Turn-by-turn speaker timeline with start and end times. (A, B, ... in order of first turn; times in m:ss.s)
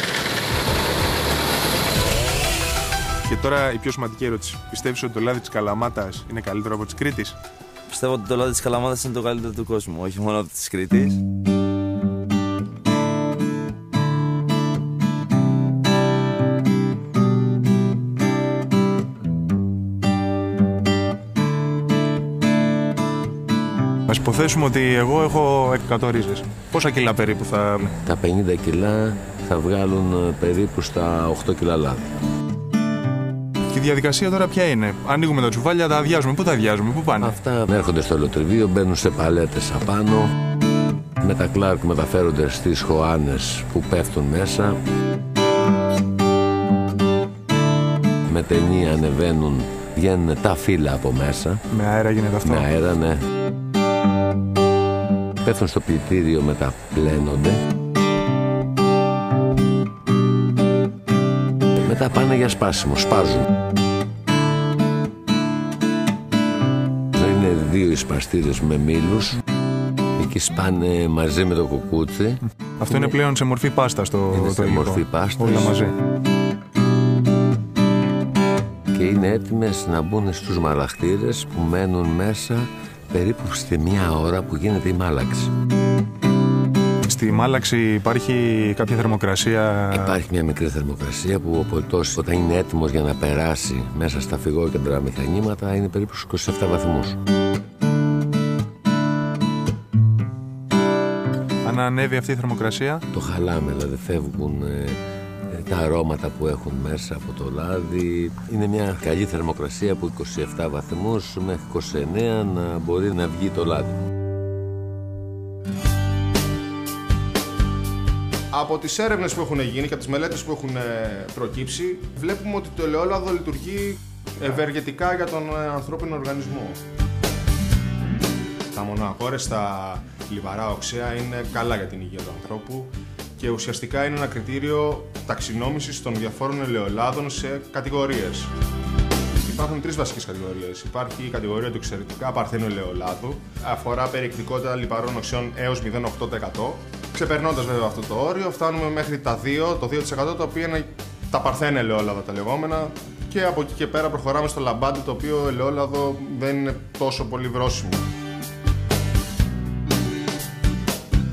0:03.2-0:07.4 A
0:07.9-0:11.2 B
0:24.1-0:27.9 A
0:28.0-0:32.1 C
0:33.7-0:37.3 A
0:37.2-0:40.3 C
0:41.2-0:44.8 C
0:48.3-0:51.6 C
0:51.7-0:52.7 A
0:52.4-0:53.2 C
0:55.4-0:57.6 C
1:01.8-1:03.4 C
1:07.2-1:09.4 C
1:10.2-1:13.0 C
1:12.8-1:15.9 A
1:14.3-1:15.8 C
1:18.9-1:25.5 C
1:27.0-1:30.2 A
1:29.9-1:37.2 C
1:41.6-1:43.0 A
1:43.1-1:45.0 C
1:45.5-1:53.9 C
1:58.5-2:06.8 D
2:08.7-2:18.5 D
2:19.4-2:38.0 D